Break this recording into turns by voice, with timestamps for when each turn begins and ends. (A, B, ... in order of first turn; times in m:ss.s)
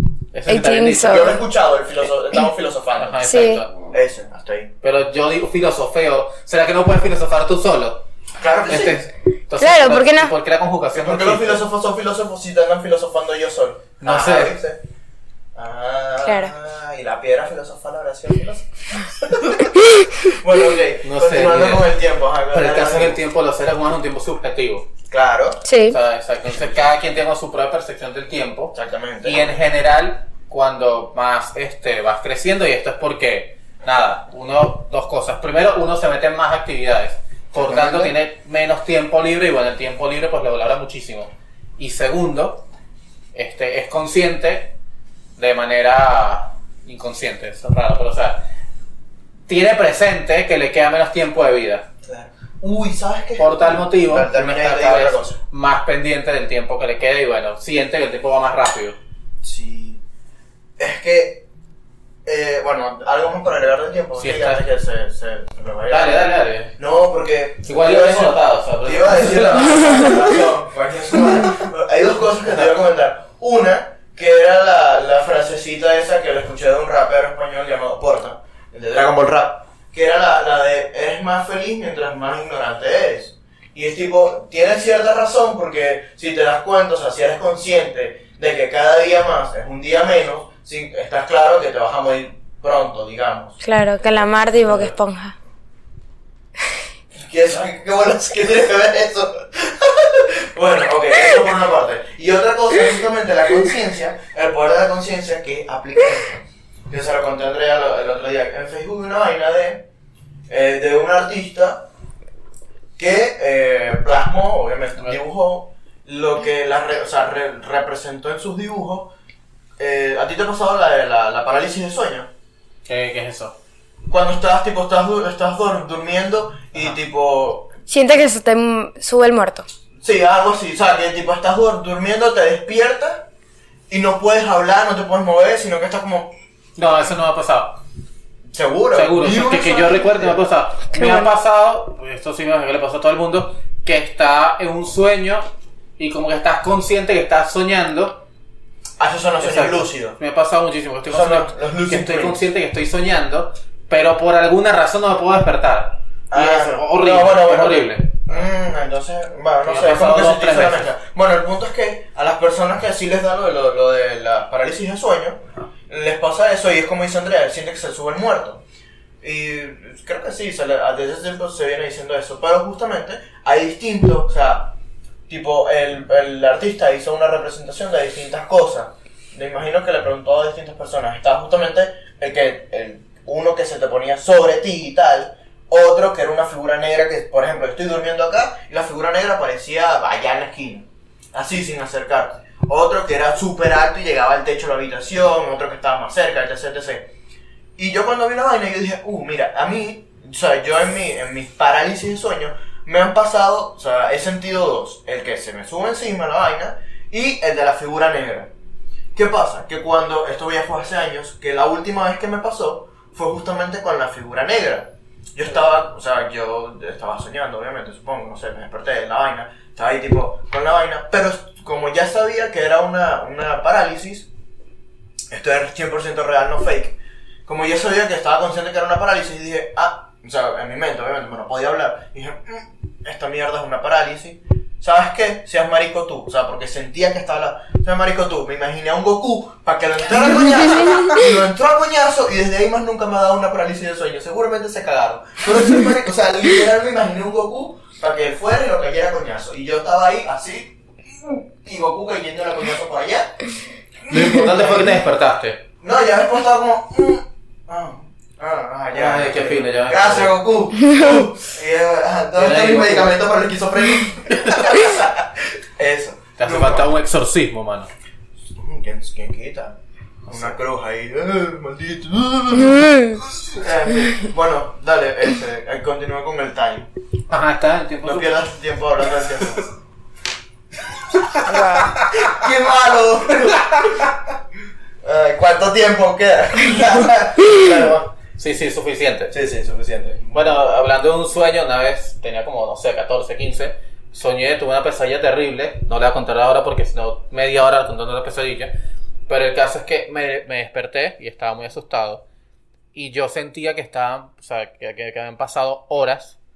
0:00.3-0:01.4 A
0:00.5-0:01.4 B
0:01.0-0:03.2 C
0:03.0-0:03.7 A
0:03.2-0:03.6 B
0:03.8-0:04.7 C
0:04.8-0:11.6 A
0:08.4-0:09.0 C
0:09.6-0:10.3 B
0:10.9-0:14.8 C
0:14.0-0:14.5 A
0:15.5-0:23.2 C
0:16.2-0:16.5 B
0:21.0-0:22.0 A
0:22.5-0:24.9 A
0:25.1-0:25.6 C
0:25.6-0:26.0 B
0:25.9-0:42.6 A
0:28.7-0:29.6 C
0:37.5-0:38.2 C
0:43.3-0:44.7 A
0:45.4-0:48.4 A
0:49.5-0:51.8 A
0:52.0-0:55.4 C
0:53.4-0:59.0 A
0:59.4-1:00.0 C
1:00.8-1:01.4 C
1:02.2-1:33.6 C
1:04.2-1:04.6 A
1:05.9-1:06.7 A
1:07.6-1:10.2 A
1:33.6-1:35.4 B
1:37.1-1:49.8 C
1:50.5-1:51.9 C
1:53.0-1:59.1 C
1:59.8-2:02.3 C
2:02.8-2:03.6 A
2:04.1-2:07.7 C
2:07.9-2:09.6 B
2:10.0-2:13.3 C
2:13.9-2:16.3 C
2:16.8-2:17.8 A
2:18.5-2:20.4 C
2:18.9-2:25.4 A
2:20.9-2:21.3 B
2:26.0-2:28.2 A
2:29.0-2:30.2 C
2:29.4-2:38.3 A
2:31.0-2:32.4 C
2:36.3-2:48.6 C
2:39.6-2:40.9 A
2:49.2-2:54.8 C
2:55.3-3:17.1 C
3:17.8-3:28.5 C
3:29.1-3:44.3 C
3:45.3-4:13.4 C
4:14.0-4:15.0 C
4:14.1-4:15.6 A
4:15.8-4:26.9 C
4:18.9-4:20.4 A
4:22.4-4:23.2 A
4:24.3-4:25.0 A
4:26.4-4:27.9 A
4:28.5-4:36.9 C
4:32.6-4:33.2 B
4:37.3-4:38.4 A
4:38.0-4:39.7 C
4:41.4-4:42.0 B
4:41.5-4:44.2 C
4:45.0-4:48.1 C
4:48.4-4:49.3 A
4:49.3-4:50.6 C
4:50.3-4:58.7 A
4:59.3-5:02.2 A
5:02.9-5:06.4 A